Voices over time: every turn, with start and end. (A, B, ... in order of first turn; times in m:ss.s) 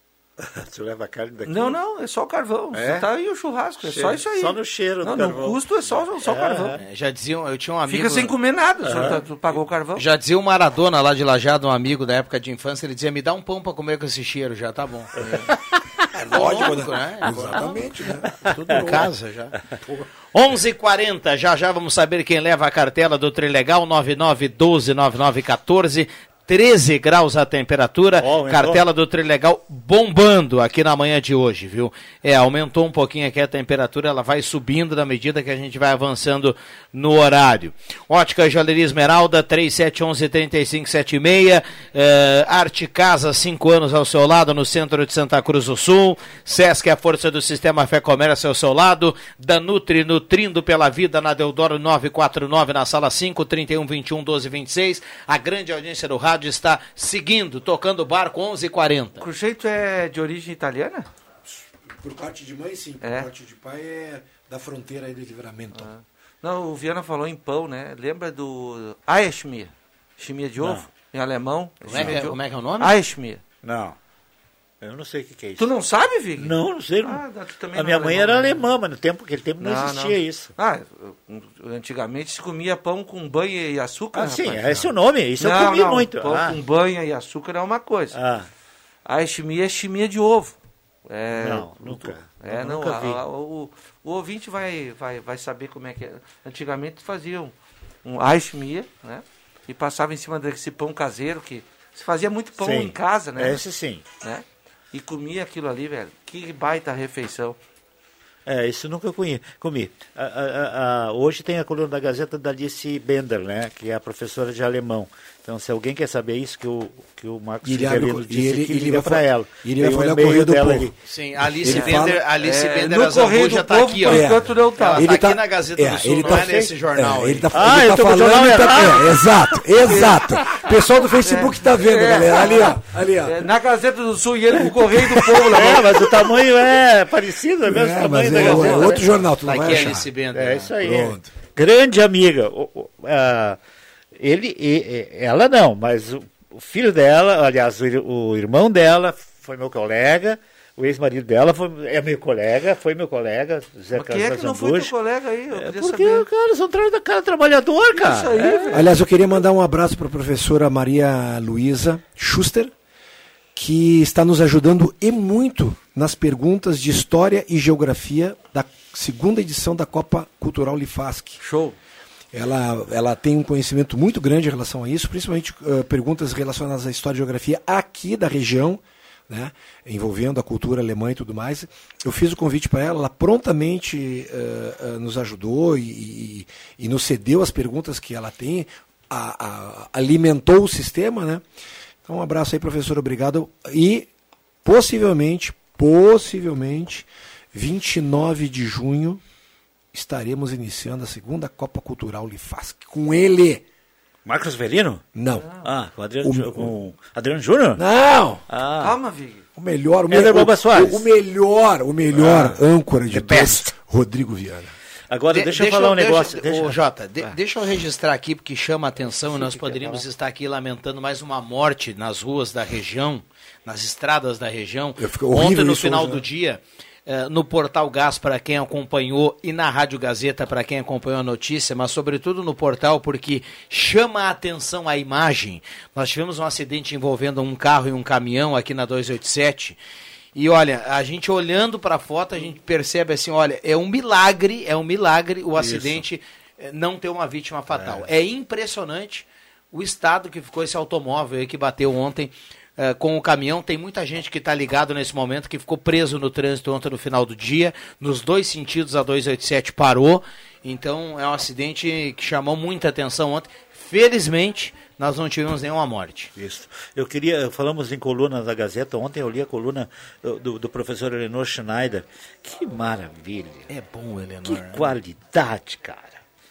0:00.4-0:01.8 A
0:01.4-0:06.8 B
0:02.7-0:03.1 A
0:03.8-0:06.8 A
0:06.8-0:08.3 C
0:07.9-0:10.0 B
0:08.8-0:09.2 A
0:10.0-0:15.1 C
0:16.1-0:19.1 D
0:16.3-0:17.8 C
0:17.3-0:17.8 A
0:18.3-0:19.1 A
0:18.4-0:19.6 C
0:19.7-0:20.0 A
0:20.3-0:59.2 C
0:28.2-0:28.9 A
0:59.2-1:01.1 B
1:02.0-1:05.9 D
1:03.0-1:03.3 B
1:05.8-1:13.4 B
1:11.8-1:13.0 C
1:11.9-1:12.2 A
1:13.6-1:14.0 A
1:14.8-1:15.7 A
1:15.6-1:18.6 B
1:16.4-1:17.2 A
1:17.7-1:20.5 A
1:19.6-1:28.2 B
1:24.1-1:26.6 A
1:28.1-1:28.5 A
1:29.1-1:30.6 B
1:31.1-1:37.5 B
1:31.4-1:33.2 A
1:38.0-1:43.6 B
1:42.6-1:44.0 A
1:44.2-1:47.6 B
1:48.5-2:00.9 A
1:57.6-2:02.2 D
2:01.0-2:07.5 C
2:01.7-2:05.1 B
2:04.0-2:13.5 D
2:06.3-2:06.7 A
2:07.5-2:09.2 A
2:09.9-2:16.3 B
2:14.5-2:15.7 D
2:15.4-2:19.2 A
2:17.6-2:20.1 D
2:18.3-2:19.0 B
2:19.4-2:20.7 C
2:20.3-2:23.6 A
2:20.8-2:21.3 D
2:24.2-2:34.9 A
2:33.9-2:36.3 B
2:35.5-2:38.9 A
2:37.9-2:38.9 B
2:38.7-2:42.7 D
2:43.6-2:51.4 D
2:51.4-2:51.8 B
2:52.3-3:11.4 D
3:12.0-3:14.1 D
3:14.6-3:19.2 D
3:19.9-3:23.6 D
3:24.2-3:25.0 A
3:25.2-3:25.5 D
3:25.6-3:27.8 A
3:26.2-3:26.7 D
3:27.8-3:28.4 D
3:28.5-3:29.0 A
3:28.8-3:29.4 B
3:29.6-3:34.7 D
3:30.1-3:31.1 A
3:32.1-3:33.7 A
3:35.1-3:37.3 A
3:35.3-3:59.8 C
3:39.2-3:40.0 A
3:45.0-3:46.2 D
4:00.4-4:26.3 C
4:05.6-4:06.0 A
4:07.7-4:08.1 A
4:26.4-4:33.7 A
4:33.7-4:34.9 C
4:34.4-4:36.2 A